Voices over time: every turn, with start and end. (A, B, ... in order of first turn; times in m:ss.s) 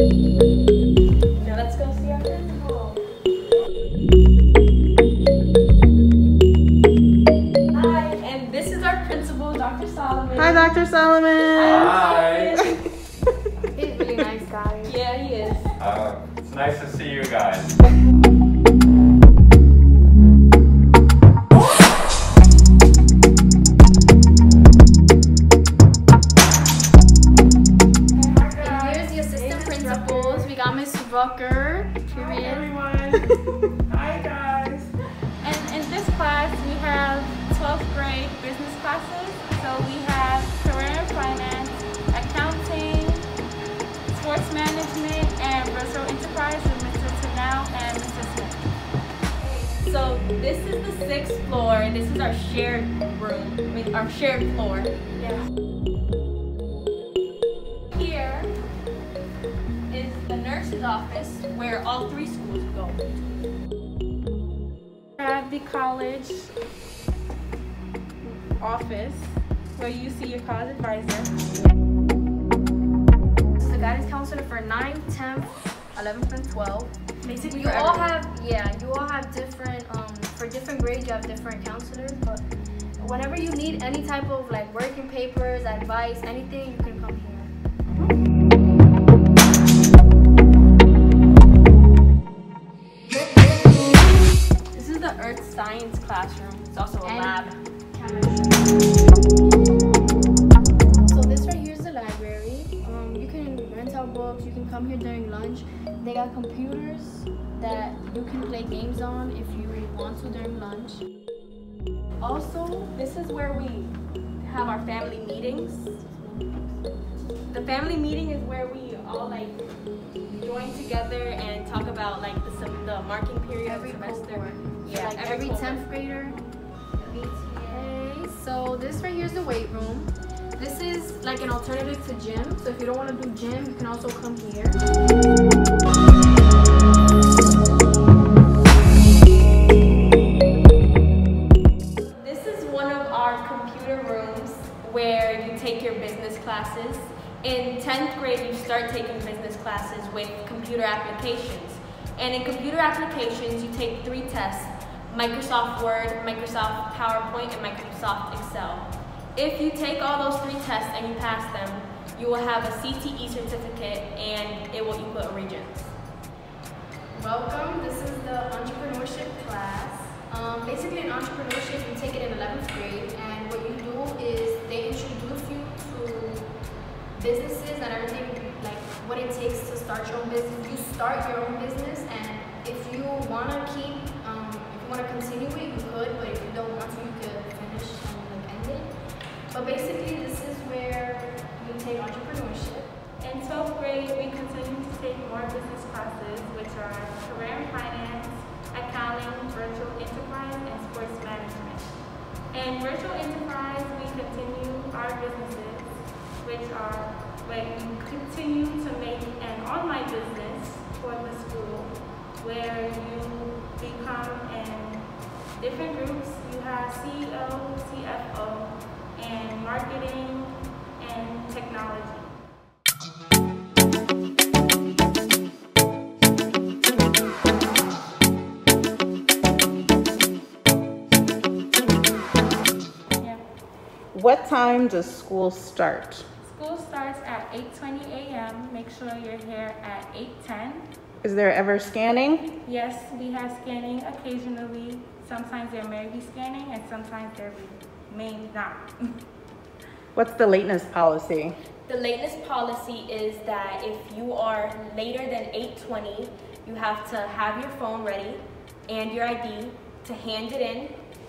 0:01.3-0:03.0 A
0:07.7-0:10.7 A
0:10.3-0:12.1 B
0:11.5-0:12.8 A
0:11.8-0:12.5 C
0:13.7-0:15.0 D
0:14.8-0:15.7 A
0:15.8-0:17.7 C
0:28.1-0:30.5 E
0:28.2-0:28.8 B
0:28.6-0:32.7 D
0:29.5-0:29.9 B
0:32.1-0:33.3 B
0:33.9-0:34.9 B
0:35.4-0:43.2 E
0:44.1-0:48.6 E
0:49.4-0:54.9 A
0:55.1-0:55.5 E
0:57.9-0:58.5 A
0:59.9-1:03.0 A
1:05.2-1:06.5 E
1:08.6-1:11.3 E
1:13.6-1:22.4 D
1:17.2-1:18.1 A
1:23.0-1:27.5 D
1:34.7-1:37.5 A
1:37.0-1:39.0 D
1:41.1-1:51.0 D
1:52.2-1:52.9 D
1:52.9-1:56.2 A
1:57.5-1:59.6 A
2:00.3-2:05.8 A
2:03.6-2:06.4 D
2:07.0-2:07.9 A
2:07.7-2:14.8 D
2:22.2-2:45.9 A
2:47.1-2:56.5 D
2:57.1-3:08.9 D
3:09.5-3:12.9 D
3:13.2-3:22.0 E
3:22.5-3:42.3 E
3:53.2-3:53.4 E
3:54.1-3:56.2 B
3:56.4-4:00.8 E
4:01.2-4:02.4 B
4:02.6-4:09.1 E
4:10.1-4:11.6 B
4:11.9-4:20.9 A